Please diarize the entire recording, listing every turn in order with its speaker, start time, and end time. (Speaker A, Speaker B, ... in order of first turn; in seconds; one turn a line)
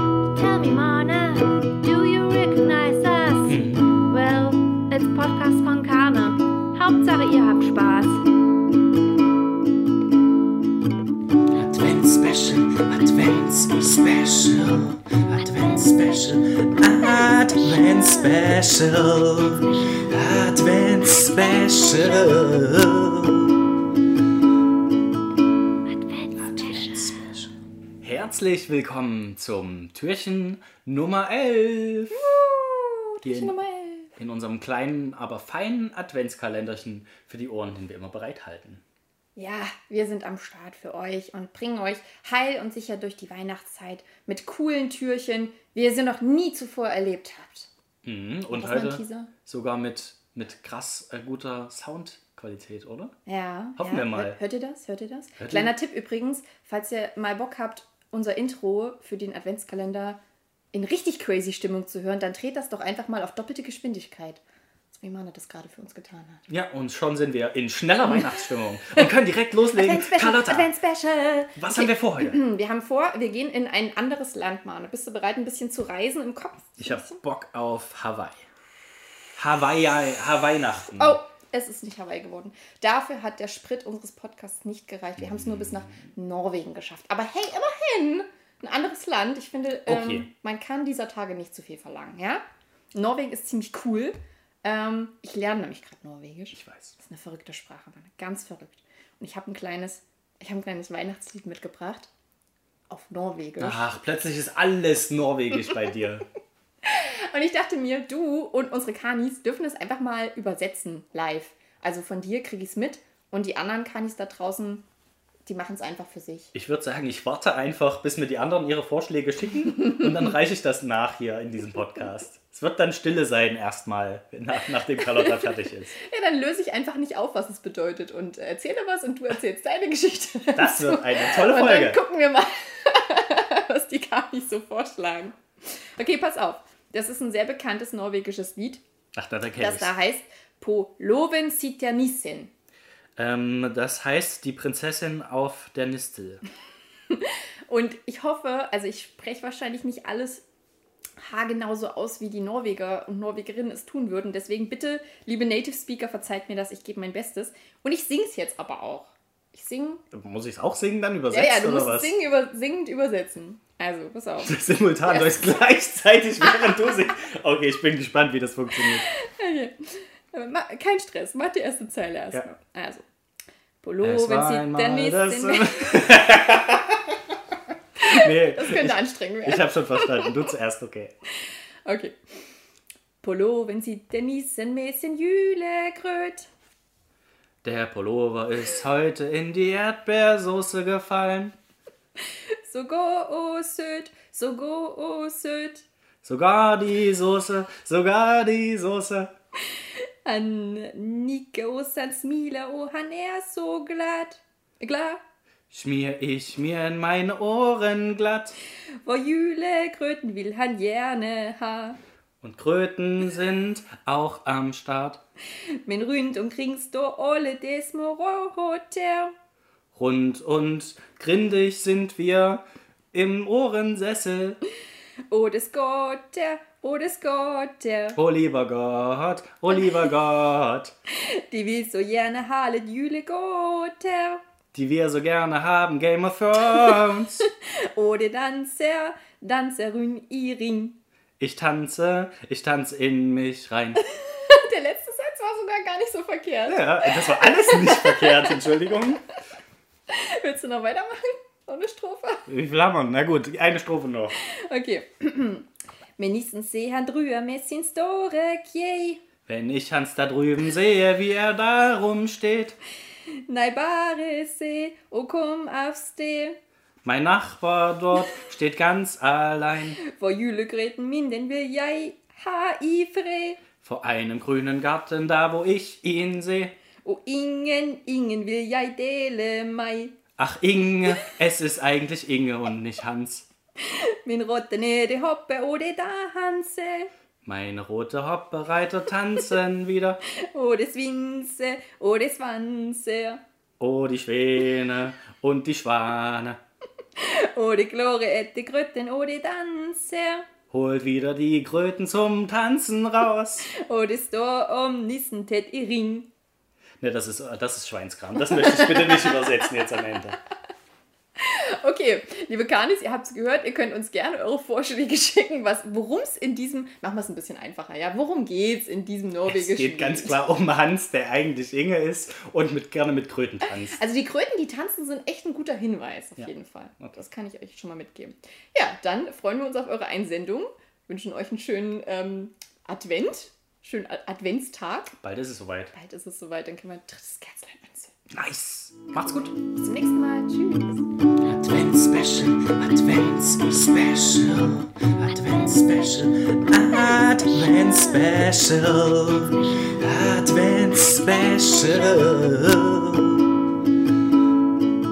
Speaker A: 0.3-8.2
Speaker B: 3.5-4.0
Speaker B: 11.5-23.6
Speaker A: 26.0-26.5
Speaker B: 26.4-32.3
Speaker C: 32.1-34.1
Speaker B: 33.2-33.5
Speaker B: 34.2-38.8
Speaker C: 39.4-47.7
Speaker B: 48.0-53.1
Speaker C: 48.5-49.3
Speaker C: 53.3-60.2
Speaker B: 53.8-54.4
Speaker B: 55.4-55.7
Speaker C: 60.7-64.4
Speaker C: 64.9-66.4
Speaker B: 66.5-70.7
Speaker C: 68.8-69.1
Speaker C: 69.7-77.2
Speaker B: 71.6-72.4
Speaker B: 76.8-78.4
Speaker B: 79.4-81.2
Speaker C: 80.9-92.4
Speaker B: 85.2-86.0
Speaker B: 89.9-90.3
Speaker C: 92.9-102.1
Speaker B: 96.5-97.0
Speaker C: 102.9-103.9
Speaker B: 103.6-106.2
Speaker C: 106.8-114.8
Speaker C: 115.5-116.5
Speaker B: 116.5-126.0
Speaker C: 126.0-135.4
Speaker B: 130.6-132.0
Speaker C: 136.0-138.8
Speaker B: 139.2-139.9
Speaker C: 139.6-142.5
Speaker B: 143.2-146.4
Speaker C: 147.1-150.4
Speaker C: 151.2-160.0
Speaker B: 160.1-162.1
Speaker C: 161.3-165.6
Speaker B: 164.4-169.1
Speaker C: 168.8-173.1
Speaker C: 173.8-176.1
Speaker B: 174.0-177.3
Speaker C: 178.0-180.4
Speaker B: 178.0-181.1
Speaker C: 181.8-182.2
Speaker C: 183.2-186.5
Speaker B: 187.6-191.6
Speaker C: 192.6-195.8
Speaker B: 196.2-199.3
Speaker C: 200.2-205.2
Speaker B: 205.7-208.6
Speaker C: 209.0-212.0
Speaker B: 212.4-215.2
Speaker C: 215.8-219.3
Speaker B: 219.9-222.6
Speaker B: 223.1-224.6
Speaker C: 225.3-228.2
Speaker B: 228.1-230.9
Speaker C: 231.2-234.4
Speaker B: 234.7-237.5
Speaker C: 236.7-241.0
Speaker B: 241.4-244.0
Speaker C: 244.1-248.7
Speaker B: 246.7-249.2
Speaker C: 250.1-252.4
Speaker B: 252.5-254.3
Speaker C: 254.4-255.7
Speaker C: 256.2-259.2
Speaker B: 259.5-262.8
Speaker C: 263.5-266.6
Speaker B: 267.0-270.0
Speaker C: 270.0-273.6
Speaker B: 273.8-276.7
Speaker C: 277.0-280.2
Speaker B: 280.4-283.5
Speaker C: 283.9-287.1
Speaker B: 287.4-290.2
Speaker C: 290.5-293.4
Speaker B: 293.8-296.6
Speaker C: 297.2-300.5
Speaker B: 300.7-303.7
Speaker C: 303.7-306.3
Speaker B: 307.0-310.4
Speaker C: 308.6-309.4
Speaker C: 311.4-320.4
Speaker B: 319.5-324.0
Speaker C: 323.6-335.1
Speaker B: 335.2-335.9
Speaker C: 335.9-338.1
Speaker B: 338.3-339.6
Speaker C: 339.7-341.0
Speaker B: 341.4-353.5